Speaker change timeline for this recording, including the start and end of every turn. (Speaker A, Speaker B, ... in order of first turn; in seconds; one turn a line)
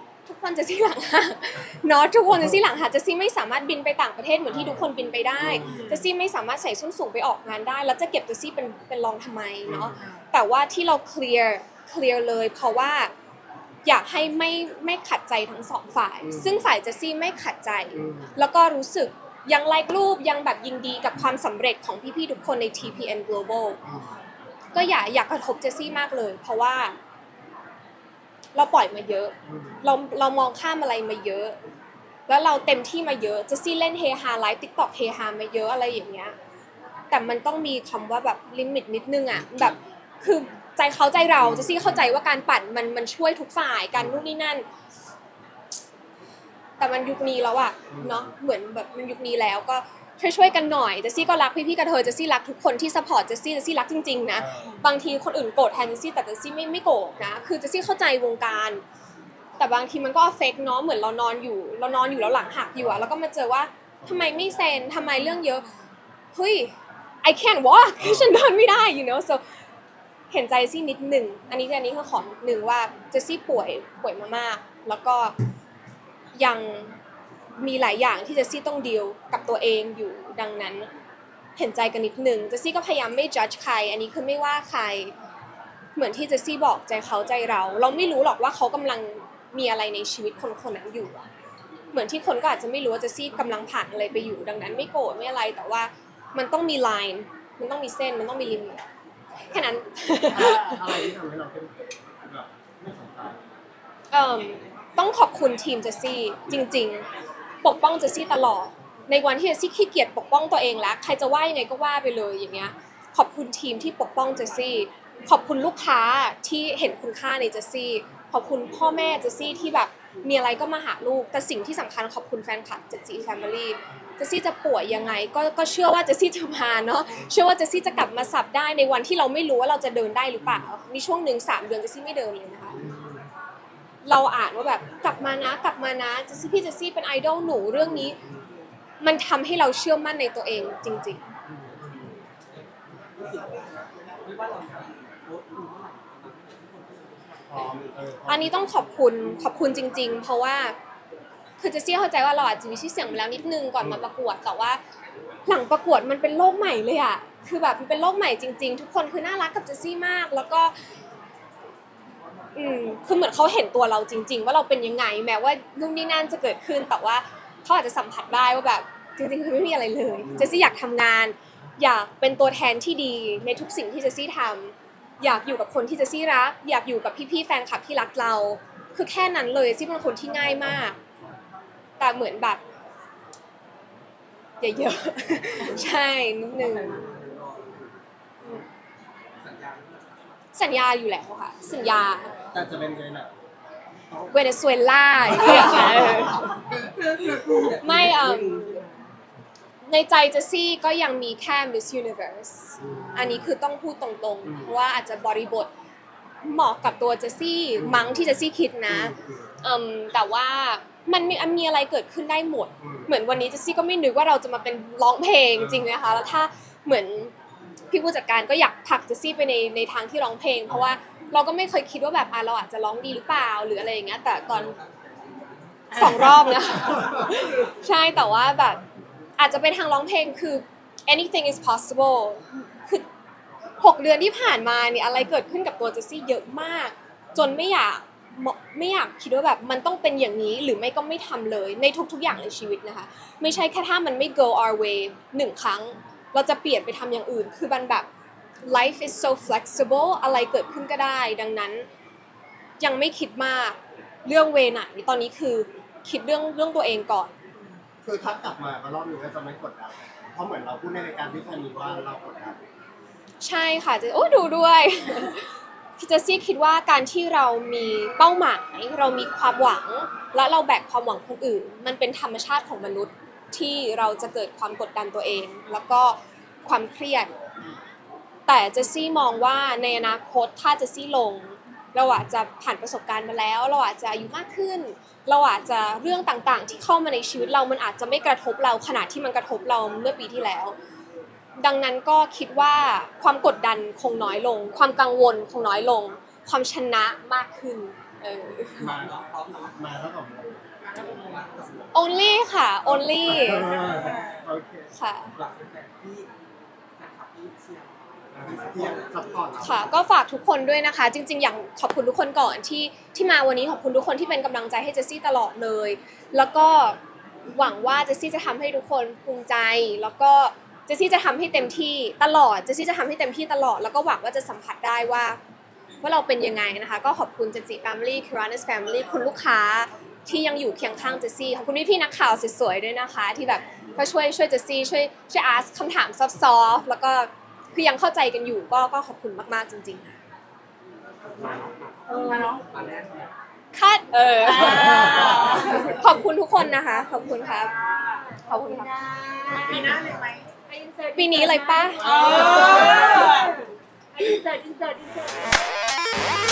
Speaker A: 0.2-13.1
Speaker B: 4.5-5.9
Speaker C: 5.6-6.0
Speaker B: 9.7-10.0
Speaker C: 10.0-10.2
Speaker A: 13.8-23.8
Speaker B: 16.2-16.6
Speaker B: 17.9-18.3
Speaker B: 23.8-24.1
Speaker A: 24.7-26.9
Speaker A: 28.5-31.6
Speaker B: 29.4-29.8
Speaker A: 32.3-36.4
Speaker A: 37.1-44.6
Speaker B: 39.3-39.7
Speaker B: 41.4-42.1
Speaker A: 46.8-58.8
Speaker B: 47.9-48.3
Speaker B: 54.4-54.7
Speaker A: 59.6-65.7
Speaker B: 64.0-64.4
Speaker A: 66.3-69.4
Speaker B: 68.0-68.4
Speaker A: 70.3-75.3
Speaker A: 76.3-77.0
Speaker A: 77.6-80.9
Speaker A: 81.5-85.1
Speaker A: 86.0-91.3
Speaker A: 91.9-98.8
Speaker A: 99.5-101.1
Speaker B: 100.3-103.4
Speaker A: 104.1-107.0
Speaker A: 107.6-132.8
Speaker B: 132.7-133.3
Speaker A: 134.0-138.2
Speaker A: 139.0-141.2
Speaker B: 141.5-142.1
Speaker D: 142.5-147.9
Speaker B: 147.5-148.8
Speaker A: 148.3-150.8
Speaker A: 151.6-154.8
Speaker A: 155.4-160.7
Speaker A: 162.5-181.0
Speaker B: 170.2-170.6
Speaker A: 182.0-182.6
Speaker A: 184.6-187.0
Speaker D: 186.5-188.6
Speaker D: 189.3-190.4
Speaker A: 190.5-192.3
Speaker B: 192.5-193.3
Speaker B: 194.1-194.4
Speaker A: 194.3-196.5
Speaker B: 195.3-197.3
Speaker D: 195.5-199.1
Speaker A: 197.8-198.7
Speaker A: 199.8-205.7
Speaker B: 202.8-203.4
Speaker B: 204.4-204.7
Speaker A: 206.4-217.3
Speaker B: 207.8-208.3
Speaker B: 208.9-209.6
Speaker B: 212.8-213.1
Speaker B: 215.5-215.9
Speaker A: 217.9-224.8
Speaker D: 224.5-227.3
Speaker A: 225.9-228.8
Speaker A: 229.4-233.0
Speaker A: 233.8-248.1
Speaker A: 248.6-251.8
Speaker A: 252.8-257.3
Speaker B: 258.0-262.6
Speaker A: 263.4-277.3
Speaker A: 278.5-290.8
Speaker A: 291.6-299.0
Speaker B: 298.8-299.2
Speaker D: 298.9-299.8
Speaker B: 299.7-300.6
Speaker D: 300.8-302.1
Speaker A: 301.9-303.8
Speaker B: 303.2-304.9
Speaker D: 303.6-304.4
Speaker A: 304.9-305.4
Speaker D: 305.3-306.3
Speaker D: 307.0-309.9
Speaker B: 308.3-309.9
Speaker A: 309.6-317.0
Speaker A: 317.5-325.4
Speaker A: 326.0-340.2
Speaker D: 341.2-343.3
Speaker C: 342.1-342.6
Speaker E: 342.1-342.5
Speaker A: 343.7-347.7
Speaker C: 344.4-346.0
Speaker E: 347.2-350.1
Speaker A: 348.4-348.9
Speaker B: 349.6-350.2
Speaker C: 349.6-350.5
Speaker E: 350.7-355.7
Speaker A: 351.1-352.1
Speaker D: 352.0-353.3
Speaker C: 352.1-352.7